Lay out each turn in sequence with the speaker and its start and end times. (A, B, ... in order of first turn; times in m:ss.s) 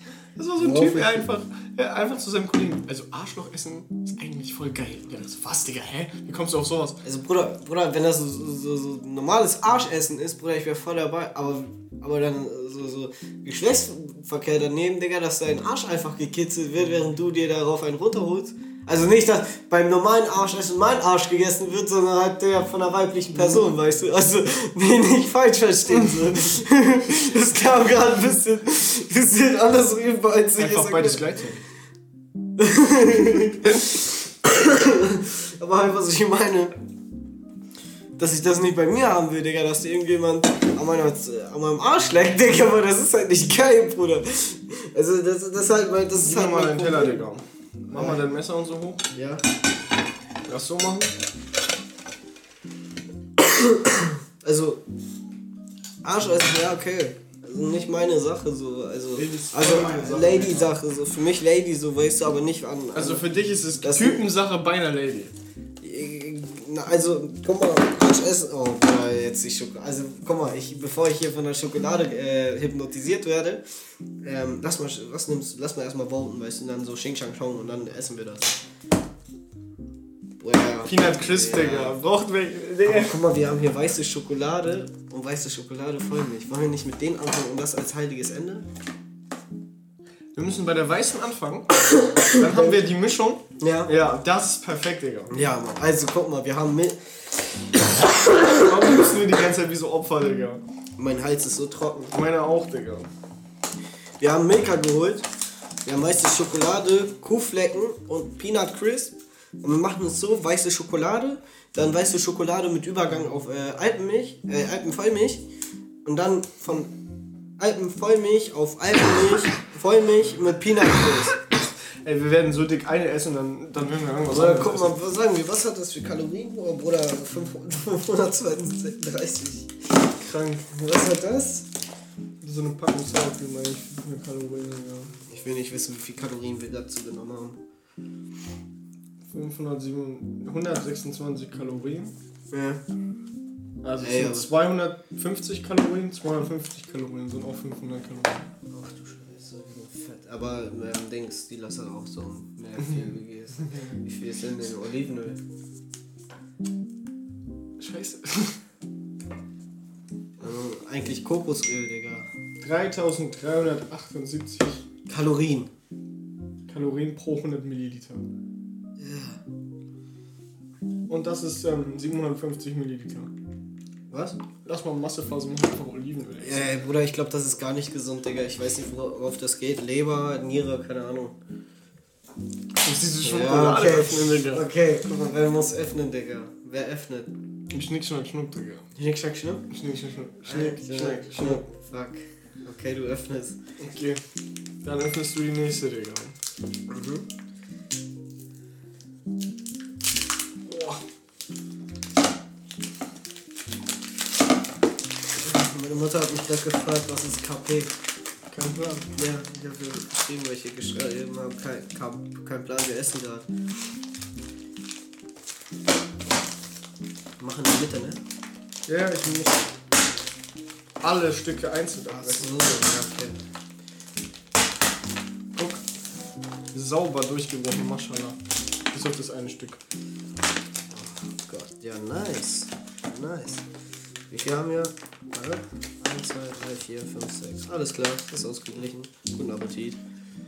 0:00.4-0:07.0 A
0:00.6-0:01.2 B
0:07.0-0:31.2 B
0:30.6-0:31.6 A
0:32.6-0:36.8 B
0:38.2-0:47.2 B
0:46.2-0:49.0 A
0:47.9-0:48.3 B
0:49.1-0:49.5 B
0:50.5-0:51.1 A
0:53.4-0:54.8 B
0:56.0-1:03.2 B
0:59.1-1:00.7 A
1:02.9-1:05.3 A
1:03.8-1:04.2 B
1:05.8-1:18.6 B
1:20.4-1:22.0 B
1:20.8-1:23.2 A
1:22.8-1:28.7 B
1:30.3-1:35.3 A
1:31.8-1:32.8 B
1:33.6-1:33.9 B
1:35.3-1:38.6 B
1:38.5-1:40.6 A
1:41.0-1:42.1 B
1:42.1-1:43.1 A
1:44.2-1:45.3 B
1:45.8-1:55.4 B
1:56.0-1:56.9 B
1:57.6-2:01.4 B
2:02.0-2:05.0 A
2:04.3-2:09.8 B
2:10.1-2:10.7 A
2:10.7-2:11.7 B
2:12.4-2:15.2 A
2:15.3-2:17.6 B
2:19.3-2:22.1 A
2:22.5-2:22.8 B
2:23.8-2:28.5 A
2:24.0-2:24.5 B
2:28.7-2:35.4 B
2:37.8-2:38.6 A
2:40.4-2:42.3 B
2:42.6-2:44.8 A
2:45.1-2:45.7 B
2:46.7-2:48.2 A
2:49.0-2:49.4 B
2:51.1-2:53.3 A
2:54.1-2:54.4 B
2:54.6-2:56.7 A
2:56.4-3:01.4 B
3:02.8-3:04.6 A
3:03.2-3:07.3 B
3:07.7-3:08.9 A
3:08.9-3:09.6 B
3:09.7-3:11.6 A
3:10.4-3:13.6 B
3:13.8-3:14.2 A
3:14.8-3:16.4 A
3:16.9-3:17.2 B
3:20.6-3:21.0 A
3:25.4-3:28.0 B
3:28.5-3:29.1 A
3:29.2-3:33.5 B
3:37.4-3:38.2 B
3:38.9-3:39.7 A
3:41.0-3:42.6 A
3:42.2-3:43.4 B
3:45.5-3:45.8 A
3:46.7-3:48.4 A
3:48.9-3:49.8 A
3:50.9-3:53.7 B
3:54.3-4:00.0 B